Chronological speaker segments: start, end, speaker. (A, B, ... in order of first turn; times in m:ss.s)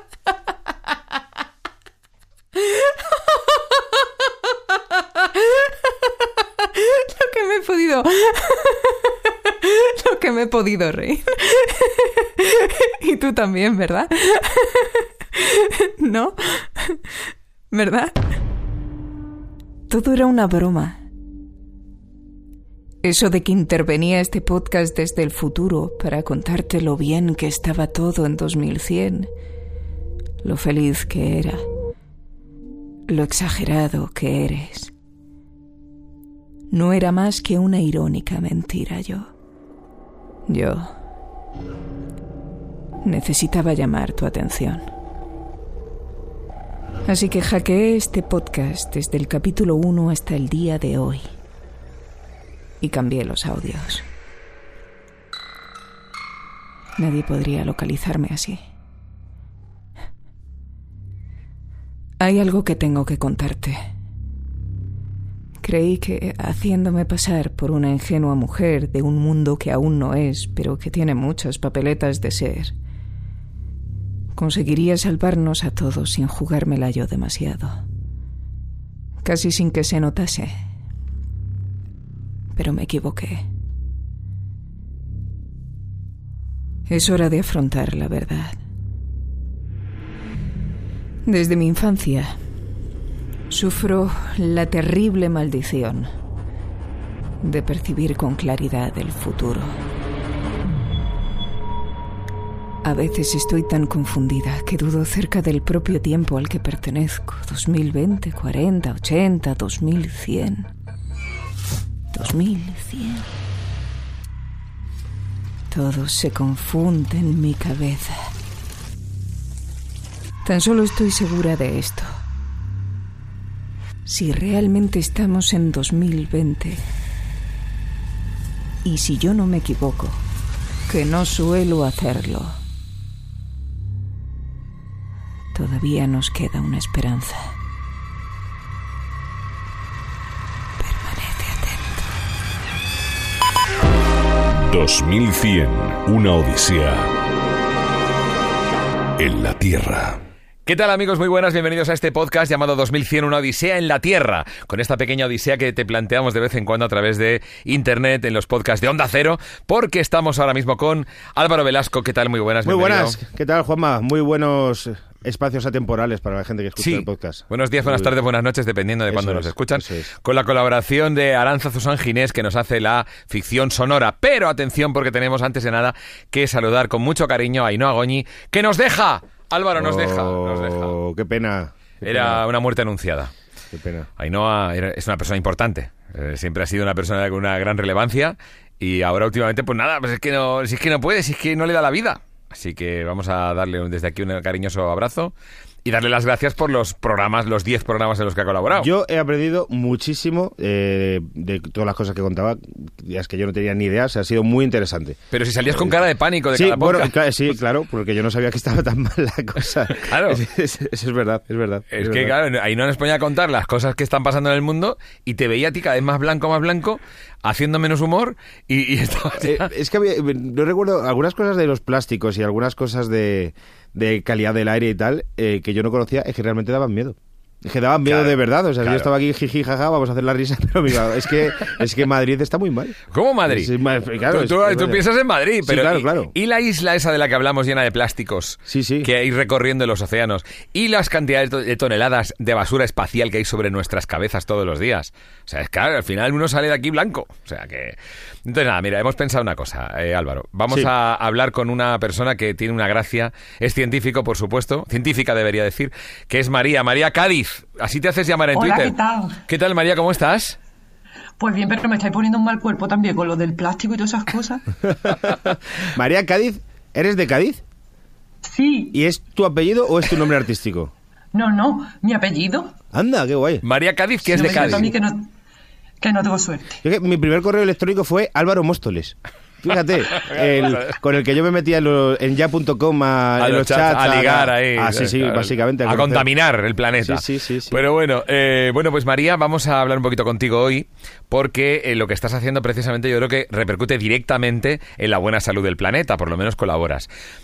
0:02.6-0:02.9 A
0:05.2-0:05.7 A
0:06.6-0:17.0 A
0:17.7-0:18.3 A
0:19.9-0:21.0 A
0:23.0-0:29.3 A
0:30.4-0:31.6 A
0:33.1-0:34.9 A
0:36.7-0:39.3 A
0:40.5-0:40.9 A
0:43.0-0:44.8 A
0:47.1-0:51.2 A
0:52.8-0:54.0 A
0:57.0-0:58.6 A
1:02.2-1:03.8 A
1:05.6-1:12.7 A
1:14.3-1:17.8 A
1:19.2-1:20.6 A
1:22.6-1:23.4 A
1:26.9-1:28.6 A
1:31.2-1:32.4 A
1:33.5-1:36.1 A
1:37.4-1:39.7 A
1:42.8-1:50.7 A
1:52.1-1:53.2 A
1:55.7-1:58.1 A
2:00.4-2:02.1 A
2:04.1-2:06.8 A
2:08.8-2:10.2 A
2:10.9-2:12.6 A
2:15.5-2:17.5 A
2:20.8-2:22.0 A
2:24.5-2:27.1 B
2:29.2-2:30.2 B
2:30.7-2:43.2 C
2:42.6-2:48.1 D
2:46.8-3:00.9 C
2:49.1-2:50.1 D
2:59.8-3:02.4 D
3:02.0-3:03.3 C
3:03.7-3:04.1 D
3:04.2-3:15.3 C
3:15.8-3:18.9 C
3:18.8-3:25.2 D
3:25.3-3:27.1 C
3:26.5-3:32.3 D
3:30.1-3:30.4 C
3:31.9-3:39.7 C
3:39.4-3:53.0 D
3:48.0-3:49.1 C
3:53.1-3:53.7 C
3:53.5-3:55.0 D
3:54.3-4:19.0 C
3:55.6-3:56.3 D
3:58.7-3:59.1 D
4:18.5-4:19.4 E
4:19.5-4:20.6 C
4:21.4-4:24.6 E
4:24.9-4:27.6 D
4:28.4-4:29.0 E
4:28.9-4:30.9 D
4:31.3-4:32.7 E
4:32.9-4:33.6 D
4:33.6-4:34.9 C
4:34.3-4:35.3 E
4:34.3-4:34.9 D
4:36.0-4:36.8 E
4:36.8-4:46.3 D
4:40.1-4:41.0 C
4:43.4-4:57.1 C
4:47.0-4:47.8 D